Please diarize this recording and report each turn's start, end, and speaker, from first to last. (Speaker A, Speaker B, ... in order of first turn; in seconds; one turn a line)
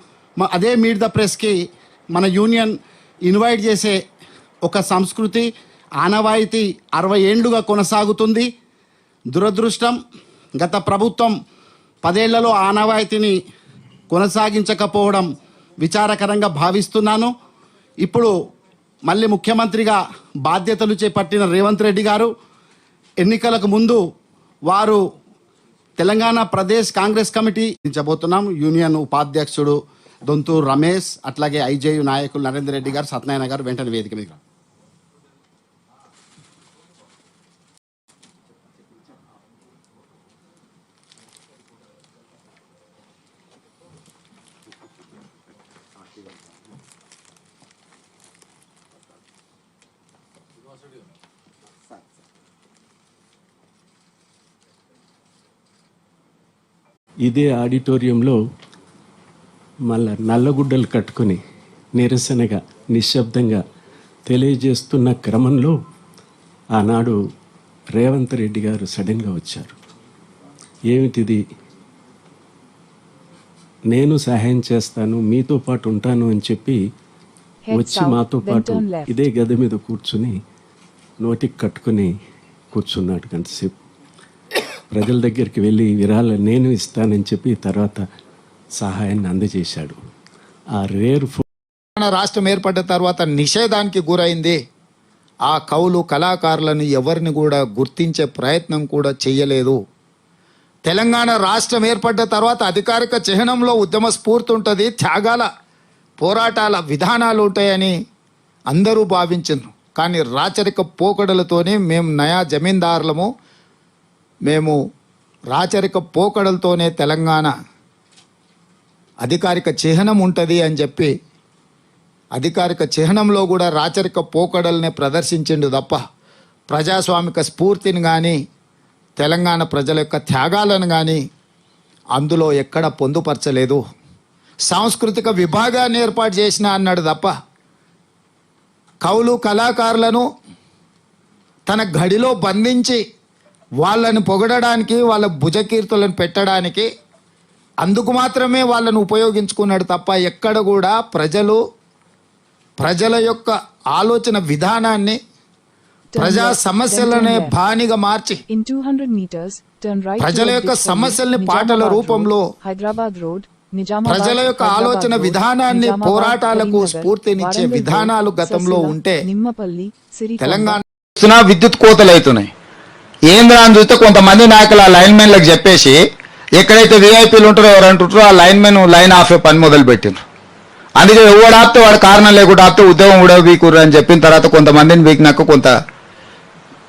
Speaker A: 0.4-1.6
Speaker A: 2.1-4.0
Speaker A: 4.7-5.5
Speaker A: 6.0-8.5
Speaker A: 9.3-10.0
Speaker A: 10.6-11.3
Speaker A: 12.0-13.4
Speaker A: 14.1-15.3
Speaker A: 15.8-17.3
Speaker A: 18.0-18.3
Speaker A: 19.1-22.3
Speaker A: 23.2-24.0
Speaker A: 24.7-25.0
Speaker A: 26.0-34.4
Speaker B: 57.2-58.4
Speaker B: 59.9-61.4
Speaker B: 62.0-63.6
Speaker B: 64.3-65.8
Speaker B: 66.8-67.2
Speaker B: 67.9-69.8
Speaker B: 70.9-71.4
Speaker B: 73.9-76.8
Speaker C: 77.6-79.1
Speaker B: 77.7-80.3
Speaker B: 81.2-82.1
Speaker B: 82.7-83.8
Speaker B: 84.9-88.0
Speaker B: 88.8-90.0
Speaker B: 90.7-91.4
Speaker D: 92.0-94.6
Speaker D: 95.5-99.8
Speaker D: 100.9-105.5
Speaker D: 106.2-107.9
Speaker D: 108.7-113.3
Speaker D: 114.5-114.8
Speaker D: 115.5-117.5
Speaker D: 119.2-121.1
Speaker D: 122.3-126.0
Speaker D: 126.7-128.4
Speaker D: 129.2-131.2
Speaker D: 132.2-133.8
Speaker D: 134.7-137.3
Speaker D: 139.0-140.2
Speaker D: 141.7-143.0
Speaker D: 143.8-146.9
Speaker D: 147.8-151.6
Speaker D: 152.8-155.2
Speaker C: 156.1-157.5
Speaker D: 156.2-158.4
Speaker C: 158.5-170.8
Speaker D: 160.2-162.4
Speaker D: 164.1-169.2
Speaker D: 170.4-172.5
Speaker D: 173.3-176.0
Speaker D: 176.6-180.2
Speaker D: 181.0-185.7